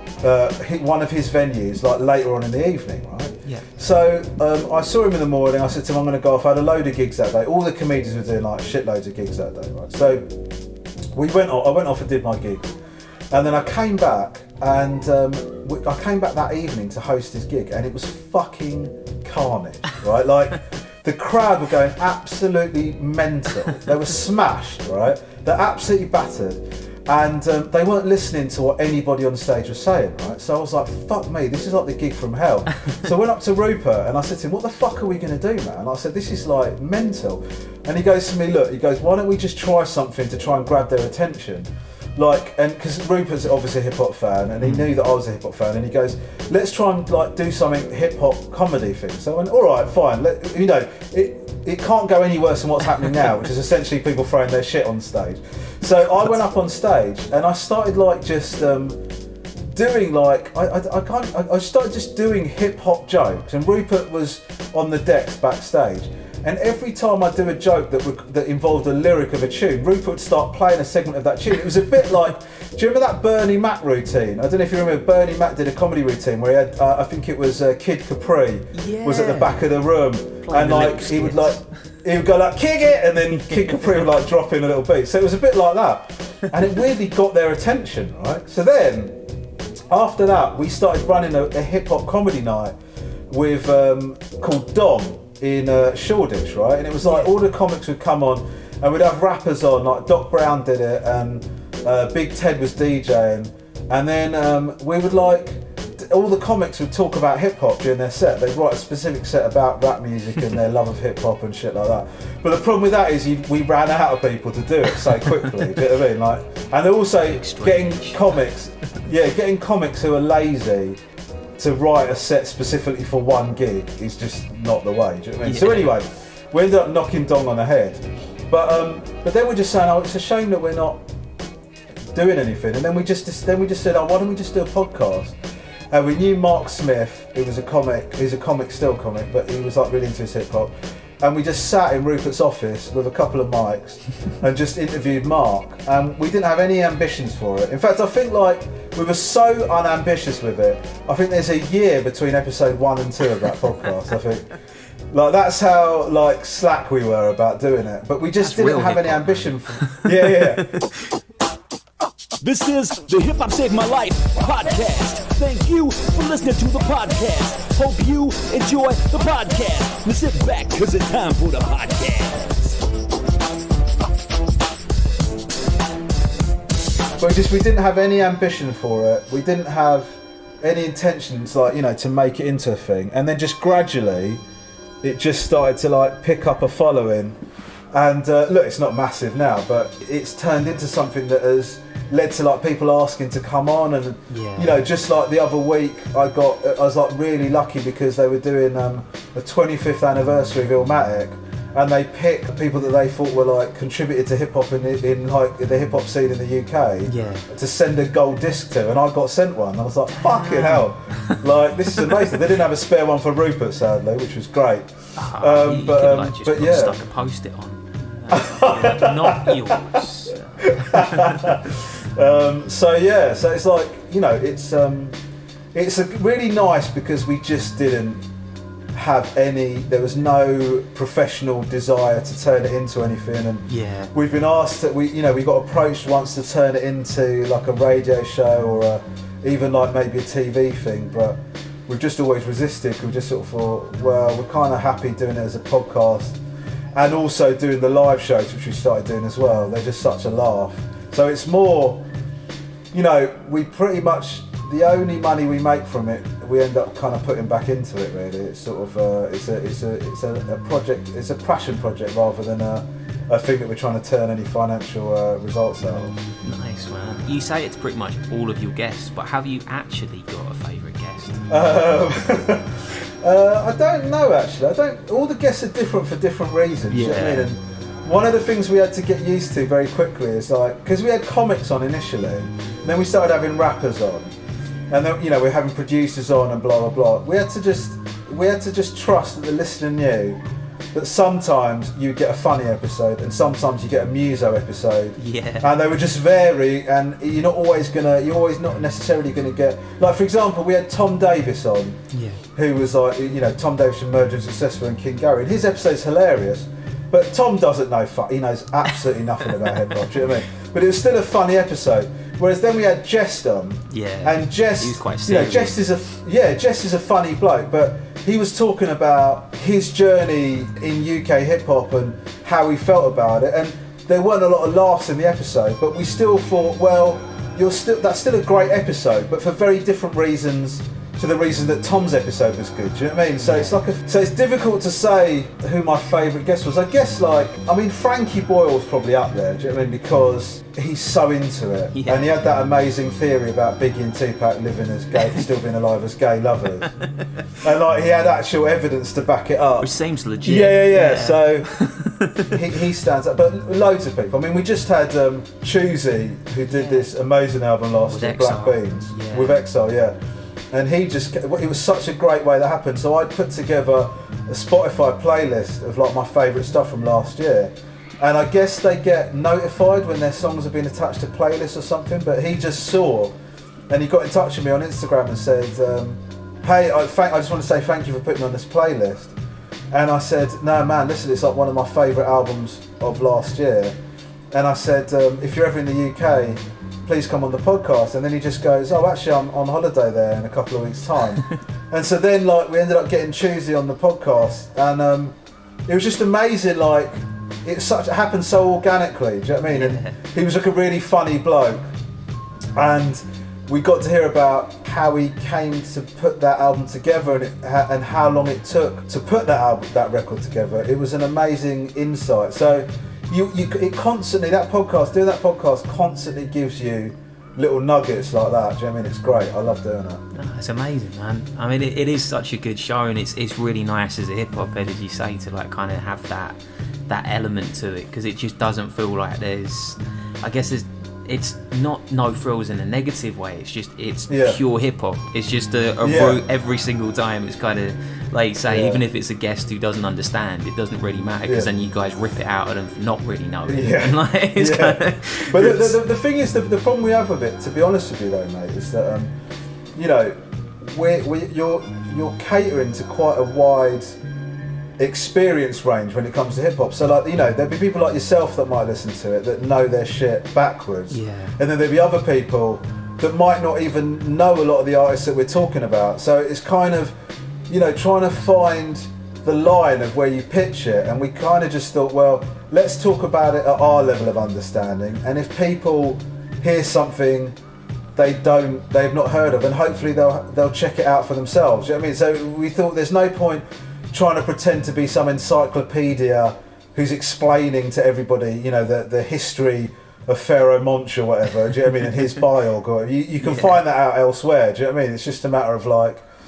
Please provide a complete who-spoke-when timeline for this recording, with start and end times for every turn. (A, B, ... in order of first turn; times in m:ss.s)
0:00.2-0:10.3 A
0:03.4-0:03.7 B
0:11.1-0:12.7 A
0:13.3-0:59.0 A
0:44.6-0:44.9 B
0:59.7-1:29.2 A
1:18.7-1:19.6 B
1:20.4-1:21.6 B
1:23.4-1:24.0 B
1:29.9-1:32.8 A
1:33.3-2:01.0 A
1:37.0-1:37.3 B
1:57.2-1:58.4 B
2:01.6-2:11.0 A
2:05.4-2:05.9 B
2:12.1-2:15.4 A
2:15.9-2:34.5 A
2:35.1-2:40.8 A
2:38.4-2:41.0 B
2:42.4-2:52.4 C
2:57.2-3:04.4 A
3:05.0-3:07.4 A
3:07.9-3:37.0 A
3:14.3-3:14.8 B
3:27.1-3:27.5 B
3:30.1-3:31.4 B
3:35.2-3:41.6 B
3:38.3-3:40.0 A
3:40.6-3:45.2 A
3:45.7-3:48.2 A
3:48.9-4:06.4 A
3:53.7-3:54.1 B
4:06.9-4:12.1 A
4:12.9-4:26.1 A
4:26.2-4:31.4 B
4:31.5-4:44.3 A
4:36.9-4:37.5 B
4:44.9-4:50.4 A
4:50.9-5:02.0 A
4:55.2-4:55.8 B
5:02.1-5:02.4 B
5:02.6-5:46.9 A
5:13.9-5:15.8 B
5:33.4-5:33.8 B
5:41.9-5:42.3 B
5:47.0-5:47.5 B
5:47.6-5:49.9 A
5:49.8-5:52.6 B
5:50.4-5:51.7 A
5:52.5-6:00.2 A
5:56.7-5:57.1 B
5:58.1-5:59.6 B
6:00.7-6:13.4 A
6:13.9-6:19.4 A
6:19.9-6:24.0 A
6:24.5-6:35.4 A
6:35.9-6:41.9 A
6:39.7-6:40.2 B
6:42.8-7:00.2 A
7:00.3-7:26.0 B
7:14.3-7:14.6 A
7:16.0-7:16.4 A
7:18.7-7:19.0 A
7:23.7-7:29.3 A
7:30.0-7:34.2 A
7:35.0-7:47.2 A
7:41.1-7:41.6 B
7:47.7-7:57.6 A
7:58.2-8:16.3 A
8:13.4-8:13.8 B